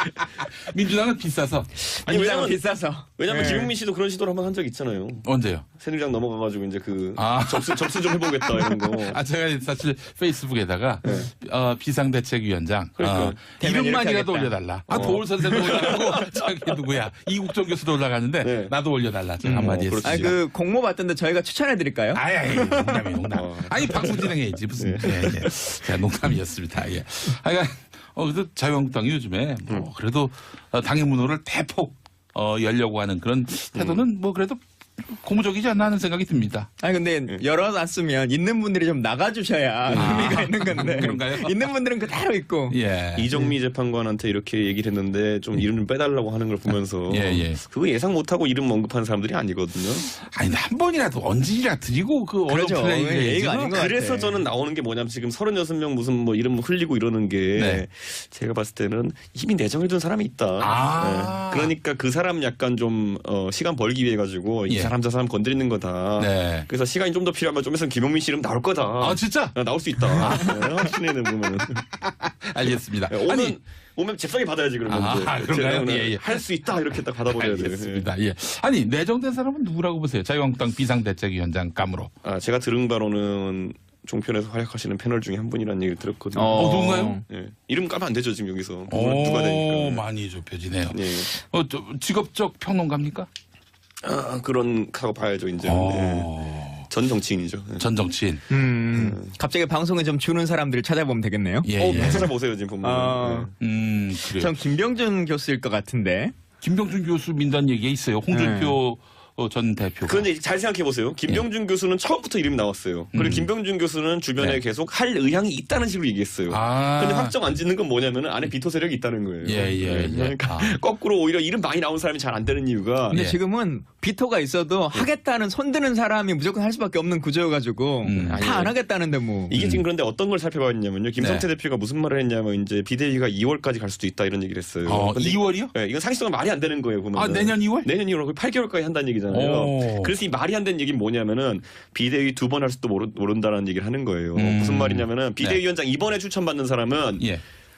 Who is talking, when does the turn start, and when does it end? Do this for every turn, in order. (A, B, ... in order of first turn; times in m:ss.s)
0:00.6-0:01.7 A
0:01.8-0:03.7 B
0:02.0-0:09.2 C
0:05.2-0:05.6 A
0:07.2-0:20.3 A
0:11.0-0:11.3 B
0:13.0-0:13.4 C
0:13.6-0:15.8 B
0:14.9-0:16.5 C
0:18.4-0:18.7 C
0:19.4-0:23.0 B
0:19.6-0:20.3 C
0:22.1-0:36.7 A
0:23.3-0:25.5 C
0:33.7-0:34.0 C
0:36.8-0:42.8 B
0:39.9-0:40.2 C
0:39.9-0:41.7 A
0:42.7-0:43.3 A
0:43.2-0:50.1 C
0:47.1-0:47.6 A
0:50.1-0:53.7 A
0:52.5-0:54.4 B
0:53.7-1:11.8 C
0:57.6-0:57.8 A
1:00.6-1:01.7 A
1:04.7-1:04.9 A
1:06.2-1:06.7 A
1:09.0-1:10.9 A
1:12.0-1:13.5 A
1:12.6-1:18.1 C
1:14.9-1:16.4 A
1:17.3-1:22.1 A
1:22.2-1:30.0 C
1:26.3-1:27.2 B
1:26.5-1:27.2 A
1:28.9-1:33.3 A
1:30.9-1:31.3 C
1:34.0-1:36.3 C
1:35.6-1:36.9 A
1:36.9-1:37.8 C
1:37.8-1:38.4 A
1:38.5-1:42.3 B
1:38.9-1:39.3 C
1:41.6-1:42.3 A
1:41.8-1:43.5 C
1:42.8-1:43.5 B
1:43.6-1:44.5 A
1:44.3-1:46.3 B
1:46.6-1:50.2 A
1:48.3-1:48.8 B
1:50.0-2:03.2 C
1:53.1-1:53.5 A
1:56.5-1:57.3 A
1:59.4-2:00.8 A
2:03.1-2:09.5 B
2:03.1-2:03.4 A
2:08.0-2:08.4 A
2:08.2-2:08.7 C
2:09.5-2:27.3 C
2:09.5-2:09.8 A
2:11.2-2:11.4 A
2:14.8-2:15.7 A
2:17.2-2:17.9 A
2:19.3-2:20.1 A
2:24.3-2:25.6 A